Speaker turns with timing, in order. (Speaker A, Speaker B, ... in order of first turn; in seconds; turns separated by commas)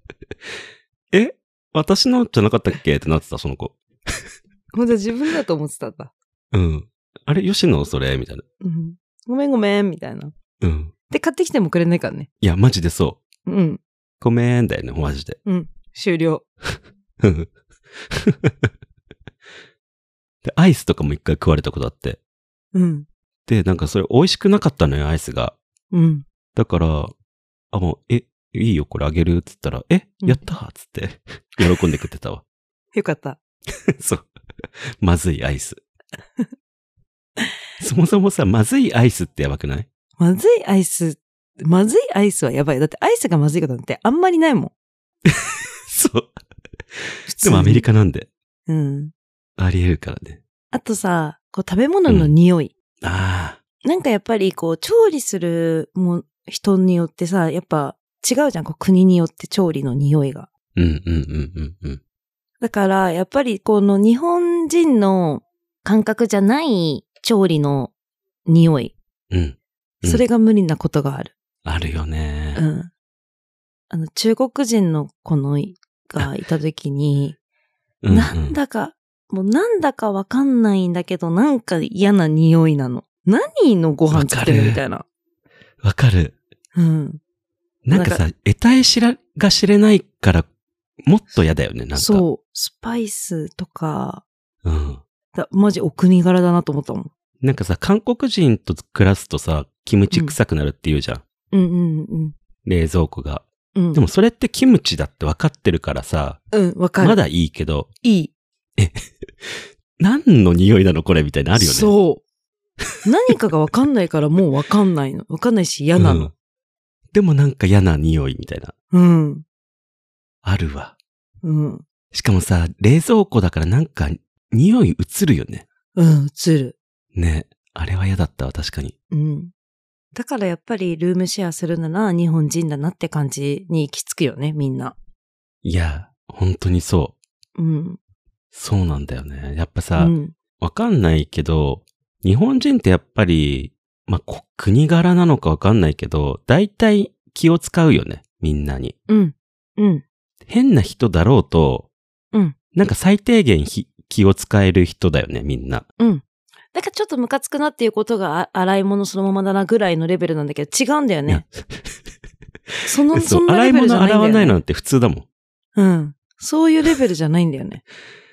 Speaker A: 1.1-4.2, Speaker B: 4.7-6.1, Speaker A: 6.5-8.4, Speaker B: 8.6-10.3, Speaker A: 10.6-10.9, Speaker B: 11.1-12.3, Speaker A: 12.4-13.2, Speaker B: 13.5-13.8, Speaker A: 14.2-15.4, Speaker B: 15.5-16.4, Speaker A: 17.2-17.5, Speaker A: 18.1-18.7, Speaker A: 20.4-22.2, Speaker B: 22.7-23.1, Speaker A: 23.5-25.6, Speaker B: 25.9-26.2, Speaker A: 26.6-27.1, Speaker A: 27.7-32.4, Speaker B: 33.0-33.4, Speaker A: 33.9-34.3, Speaker A: 35.0-35.8, Speaker A: 37.8-39.9, Speaker B: 40.2-44.7, Speaker A: 45.3-46.3, Speaker A: 47.0-48.3, Speaker B: 47.3-47.9, Speaker B: 48.7-49.1, Speaker A: 49.6-50.4, Speaker B: 50.7-52.7, Speaker A: 52.1-52.3, Speaker A: 53.0-53.6, Speaker B: 53.8-60.5, Speaker A: 60.8-62.0, Speaker B: 62.6-67.9, Speaker B: 68.5-69.0, Speaker A: 69.3-70.2, Speaker B: 70.0-71.3, Speaker A: 71.7-72.6, Speaker B: 72.5-72.9, Speaker B: 73.9-77.4, Speaker A: 78.0-78.6, Speaker B: 78.1-85.0, Speaker A: 84.1-84.8, Speaker A: 85.8-86.4, Speaker B: 86.8-87.2, Speaker A: 87.8-90.5, Speaker B: 87.9-88.2, Speaker A: 91.0-92.3, Speaker B: 92.0-94.2, Speaker A: 94.6-95.0, Speaker B: 95.3-97.1, Speaker A: 97.4-101.2, Speaker B: 100.1-100.4, Speaker B: 101.5-102.3, Speaker A: 102.7-106.4, Speaker B: 103.8-104.0, Speaker B: 106.5-107.2, Speaker A: 107.0-107.9, Speaker B: 108.0-108.3, Speaker A: 108.8-111.9, Speaker B: 111.5-112.2, Speaker B: 113.0-116.3, Speaker A: 116.0-116.3, Speaker A: 117.1-118.7, Speaker B: 118.9-119.4, Speaker A: 120.4-121.0, Speaker B: 121.4-121.8, Speaker A: 122.1-125.7, Speaker B: 126.0-126.8, Speaker A: 127.1-128.9, Speaker B: 129.1-129.5, Speaker B: 130.1-134.9, Speaker A: 135.6-137.2, Speaker B: 137.6-138.0, Speaker A: 138.5-148.9, Speaker B: 140.0-140.3, Speaker B: 149.1-150.0, Speaker A: 150.5-151.9, Speaker A: 152.7-155.8, Speaker B: 156.0-161.5, Speaker B: 162.9-164.6, Speaker A: 162.9-165.3, Speaker B: 165.8-167.8